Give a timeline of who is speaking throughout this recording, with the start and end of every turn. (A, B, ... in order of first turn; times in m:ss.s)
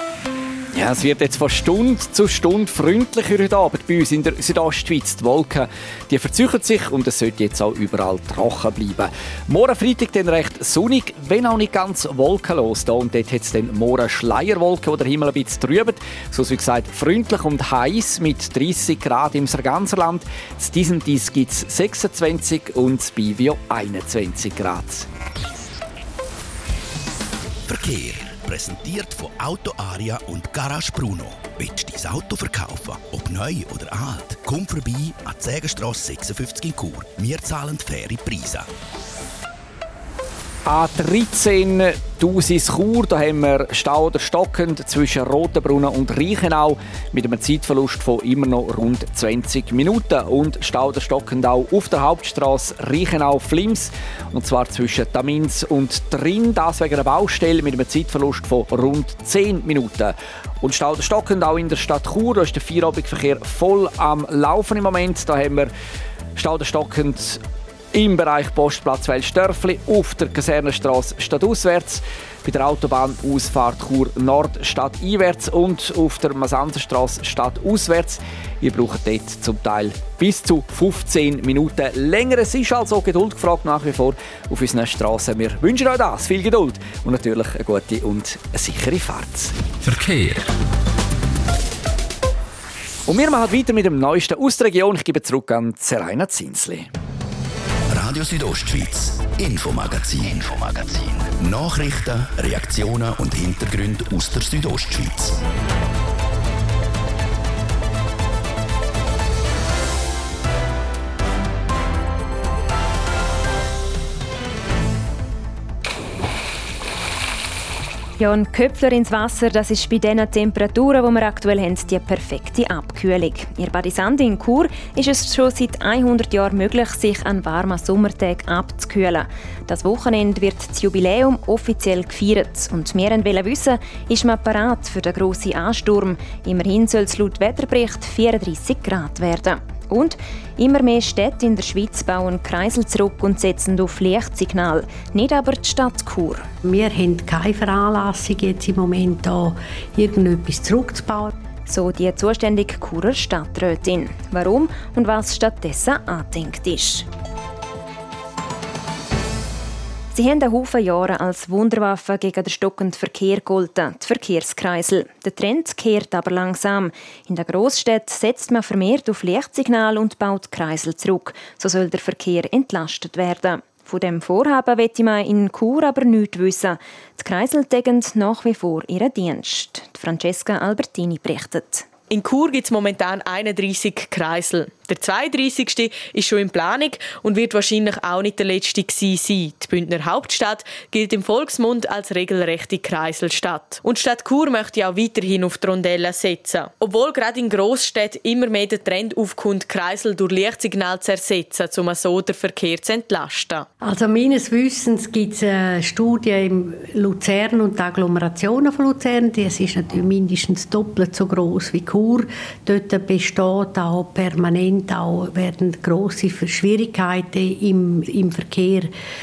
0:00.7-0:25.1 A
0:27.7-0:38.7 B
0:40.6-1:05.7 A
1:06.4-1:07.4 A
1:07.9-1:29.5 A
1:29.8-1:30.4 B
1:33.1-1:36.9 A
1:37.9-1:45.4 B
1:58.2-2:26.5 C
2:26.6-2:31.3 D
2:31.7-2:37.1 C
2:40.1-3:01.8 C
3:02.1-3:23.7 E
3:23.8-3:38.9 D